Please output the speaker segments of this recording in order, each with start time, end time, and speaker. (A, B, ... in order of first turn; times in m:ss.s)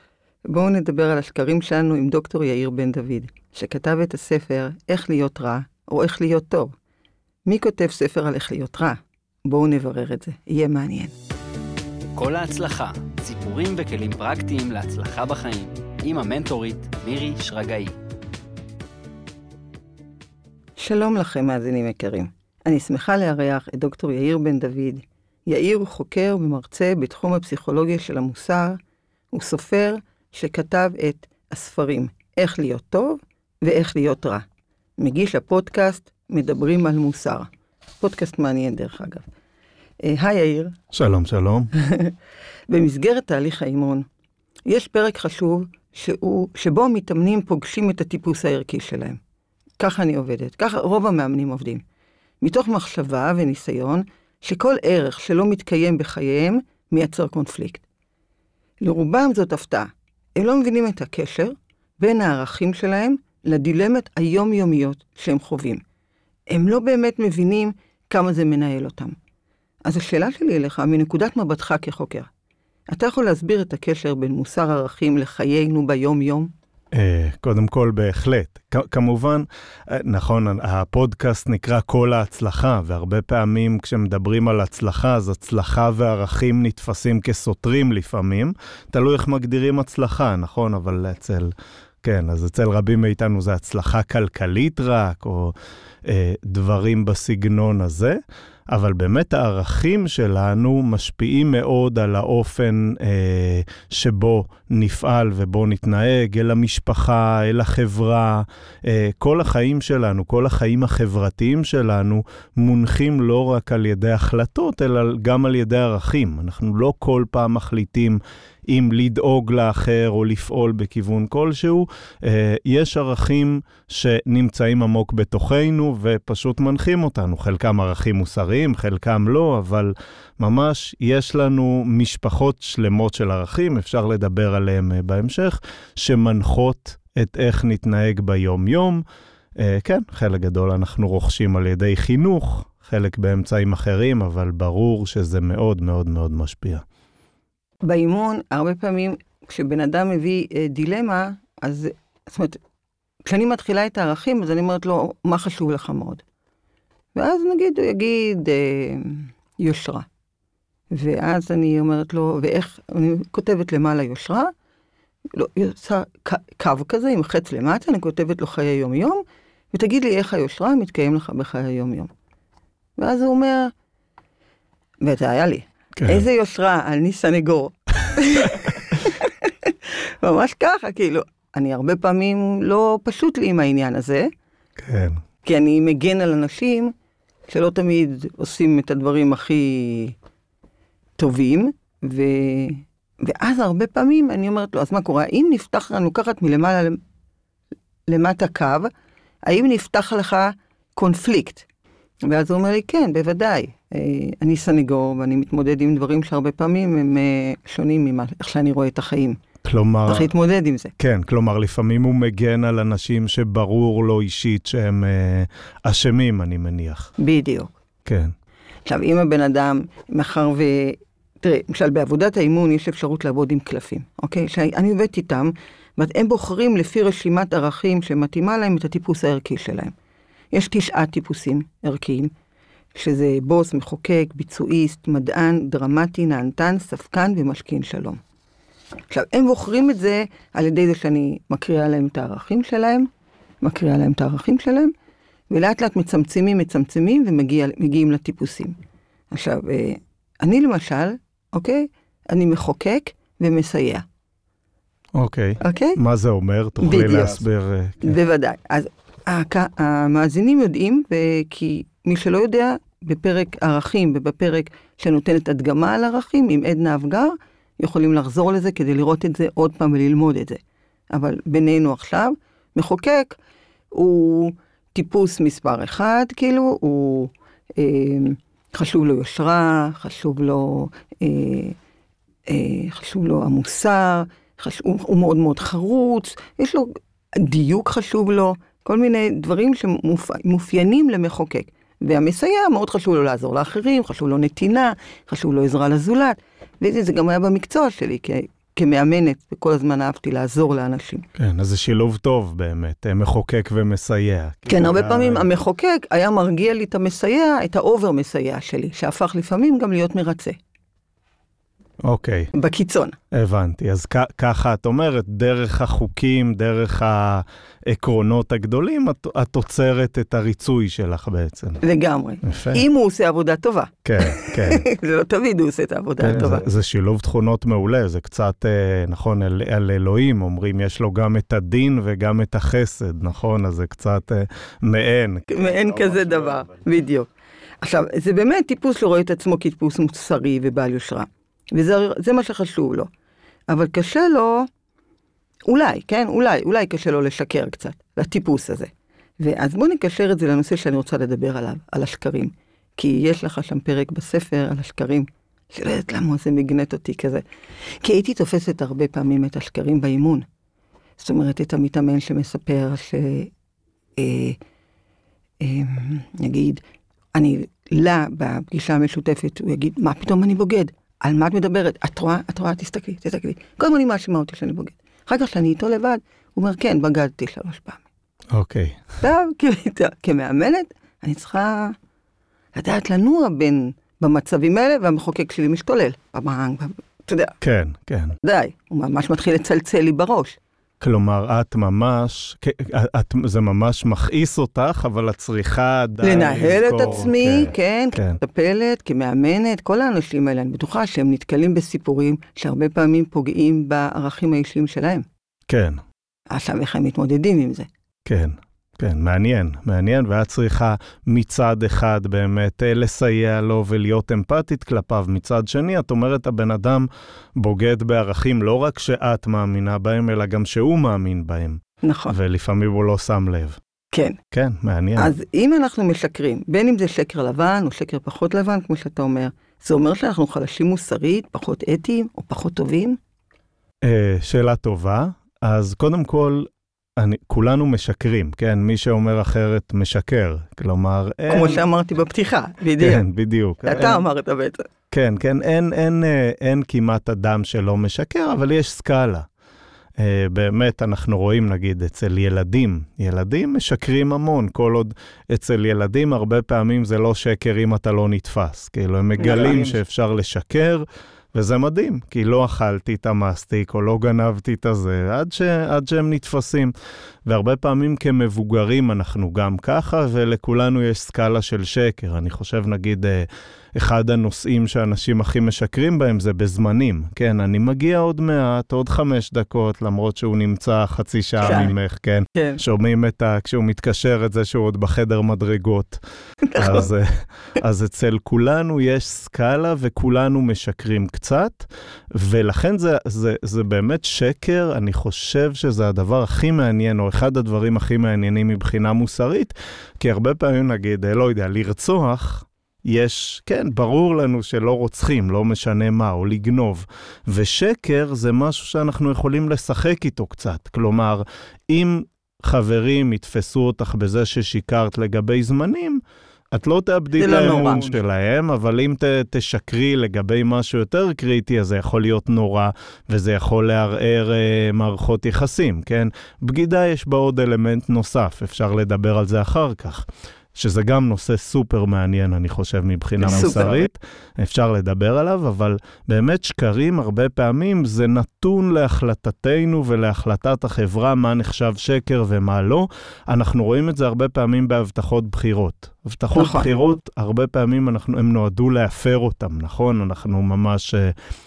0:00.5-0:06.7 A
0:07.5-0:11.1 A
0:12.2-0:17.9 B
0:20.8-0:28.8 A
0:29.3-0:34.4 A
0:35.0-0:37.5 A
0:38.0-0:39.3 A
0:40.0-0:40.8 A
0:40.9-0:41.7 C
0:41.8-0:42.2 A
0:42.7-0:44.1 A
0:44.7-0:49.2 A
0:49.8-0:51.8 A
0:52.4-0:57.8 A
0:58.8-1:05.8 A
1:06.5-1:09.2 A
1:09.8-1:12.3 A
1:12.9-1:16.5 A
1:16.9-1:38.2 C
1:38.7-2:19.0 C
2:19.6-2:26.8 C
2:27.8-2:32.6 A
2:33.2-2:36.2 A
2:37.2-2:40.1 A
2:40.9-2:44.5 A
2:45.3-2:52.1 A
2:53.0-2:53.7 A
2:55.0-3:04.3 A
2:56.0-2:56.2 C
3:04.8-3:05.2 C
3:05.4-3:06.9 A
3:07.5-3:10.2 A
3:11.2-3:17.0 A
3:18.1-3:18.9 A
3:19.5-3:21.6 A
3:22.2-3:29.4 A
3:29.6-3:30.3 C
3:30.1-3:30.9 A
3:31.0-3:37.1 C
3:37.2-3:37.8 A
3:38.0-3:38.3 C
3:38.9-3:49.9 A
3:50.5-3:52.3 A
3:53.0-3:58.2 A
3:59.1-4:03.1 A
4:03.6-4:04.9 A
4:05.5-4:08.8 A
4:09.3-4:14.0 A
4:15.2-4:18.2 C
4:15.6-4:16.0 A
4:16.8-4:17.4 A
4:18.0-4:30.6 A
4:31.1-4:33.4 A
4:33.9-4:41.8 A
4:42.5-5:01.3 A
5:01.4-5:05.5 C
5:04.7-5:10.6 A
5:12.0-5:12.5 C
5:12.5-5:13.2 A
5:13.3-5:21.8 C
5:21.8-5:26.7 A
5:22.4-5:22.8 C
5:24.0-5:24.9 C
5:26.2-5:36.3 C
5:35.5-5:37.3 A
5:37.8-5:43.1 A
5:43.7-5:44.7 A
5:45.7-6:00.5 A
6:01.2-6:03.5 A
6:04.2-6:04.6 A
6:05.6-6:06.8 A
6:07.3-6:18.0 A
6:18.5-6:19.0 C
6:19.2-6:22.0 A
6:22.7-6:27.6 A
6:27.6-6:28.4 C
6:28.4-6:30.6 A
6:31.0-6:38.4 C
6:36.2-6:45.3 A
6:45.7-6:46.0 C
6:46.5-6:47.9 A
6:48.3-7:03.8 C
7:02.0-7:02.4 A
7:04.1-7:04.4 A
7:04.5-7:05.4 C
7:05.2-7:13.2 A
7:14.0-7:21.8 C
7:21.5-7:23.2 A
7:23.0-7:24.2 C
7:23.8-7:24.9 A
7:25.1-7:29.5 C
7:30.2-7:46.9 C
7:39.4-7:39.9 A
7:47.5-8:06.2 C
8:01.6-8:01.9 A
8:02.6-8:02.8 A
8:06.6-8:07.1 A
8:06.7-9:11.4 C
8:37.4-8:38.1 A
8:53.4-8:54.0 A
9:06.6-9:06.9 A